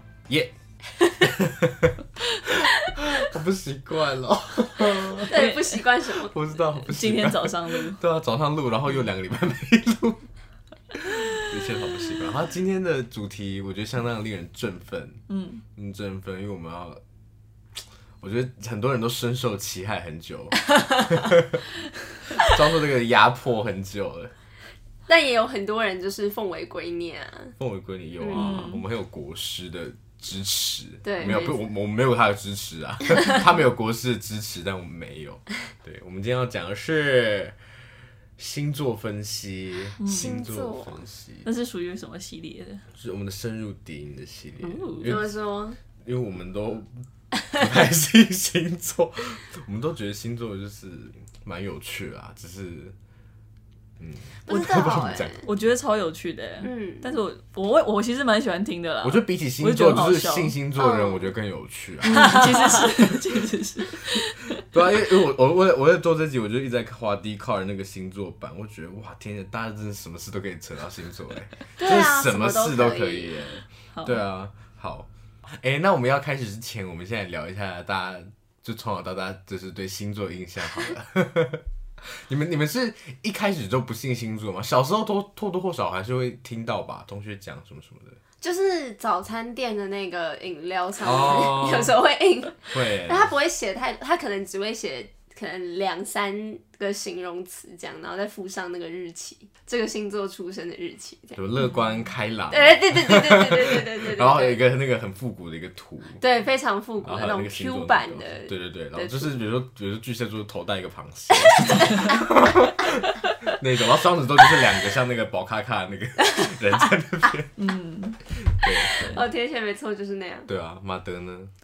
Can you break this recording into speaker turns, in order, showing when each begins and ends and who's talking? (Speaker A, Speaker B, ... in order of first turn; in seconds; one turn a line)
Speaker A: 1.2-2.0
Speaker A: 3.1-5.5
Speaker B: 4.9-5.8
Speaker C: 5.2-6.3
Speaker A: 6.1-10.2
Speaker B: 6.8-8.0
Speaker A: 11.2-15.2
Speaker B: 15.3-15.6
Speaker A: 15.7-17.0
Speaker A: 18.2-21.6
Speaker A: 22.4-24.3
Speaker C: 25.1-27.5
Speaker A: 27.6-37.6
Speaker C: 28.2-28.4
Speaker B: 28.3-28.8
Speaker C: 31.0-31.6
Speaker A: 38.4-41.5
Speaker B: 40.0-40.3
Speaker C: 40.1-41.1
Speaker B: 41.4-42.8
Speaker A: 43.0-45.3
Speaker B: 44.6-45.1
Speaker C: 45.0-45.8
Speaker A: 46.0-52.9
Speaker A: 54.0-55.4
Speaker C: 54.5-55.5
Speaker B: 55.4-60.5
Speaker C: 56.6-57.1
Speaker A: 59.0-63.4
Speaker C: 60.8-61.3
Speaker B: 62.1-64.6
Speaker A: 64.6-81.6
Speaker C: 71.8-73.3
Speaker B: 73.9-74.2
Speaker A: 82.2-88.2
Speaker C: 88.4-101.4
Speaker A: 91.0-92.0
Speaker A: 92.7-93.3
Speaker A: 101.3-106.2
Speaker B: 101.6-101.8
Speaker C: 102.5-104.6
Speaker C: 106.2-109.3
Speaker A: 107.0-117.5
Speaker C: 111.6-112.1
Speaker B: 117.6-118.2
Speaker A: 118.5-119.2
Speaker C: 118.9-120.5
Speaker B: 118.9-119.2
Speaker A: 120.5-121.5